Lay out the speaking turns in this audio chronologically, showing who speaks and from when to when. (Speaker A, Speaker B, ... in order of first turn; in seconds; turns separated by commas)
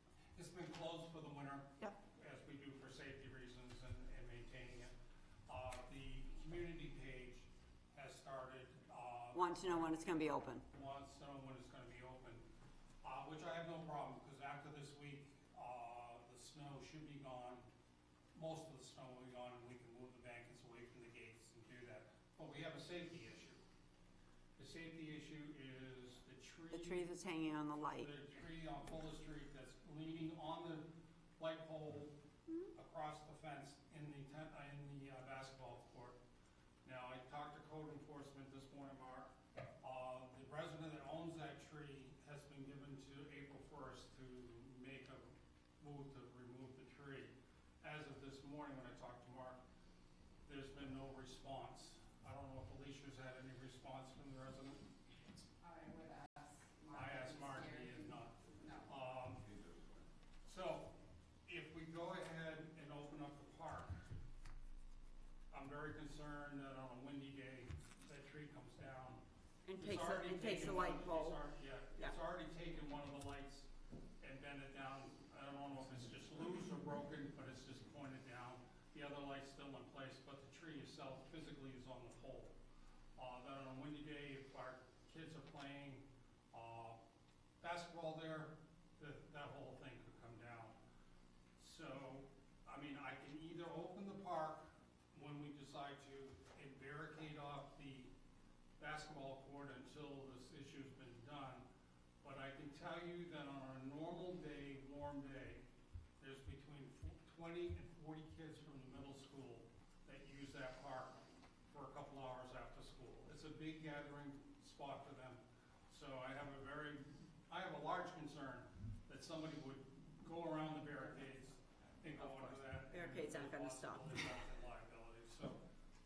Speaker A: 0.3-4.9, Speaker A: 5.5-9.8, Speaker B: 9.3-10.6, Speaker A: 10.7-12.4, Speaker A: 13.0-17.6, Speaker A: 18.3-23.6, Speaker A: 24.6-27.1, Speaker B: 26.7-28.1, Speaker A: 28.0-30.9, Speaker A: 31.4-32.1, Speaker A: 32.7-36.2, Speaker A: 36.8-49.6, Speaker A: 50.4-54.9, Speaker C: 55.6-58.9, Speaker A: 56.9-59.5, Speaker A: 60.4-60.9, Speaker A: 61.5-64.0, Speaker A: 65.5-69.2, Speaker B: 69.7-71.4, Speaker A: 69.8-73.7, Speaker A: 74.2-82.5, Speaker A: 83.2-87.0, Speaker A: 87.6-90.8, Speaker A: 91.6-98.1, Speaker A: 98.8-101.6, Speaker A: 102.2-105.6, Speaker A: 106.2-111.2, Speaker A: 111.7-125.6, Speaker B: 122.9-124.2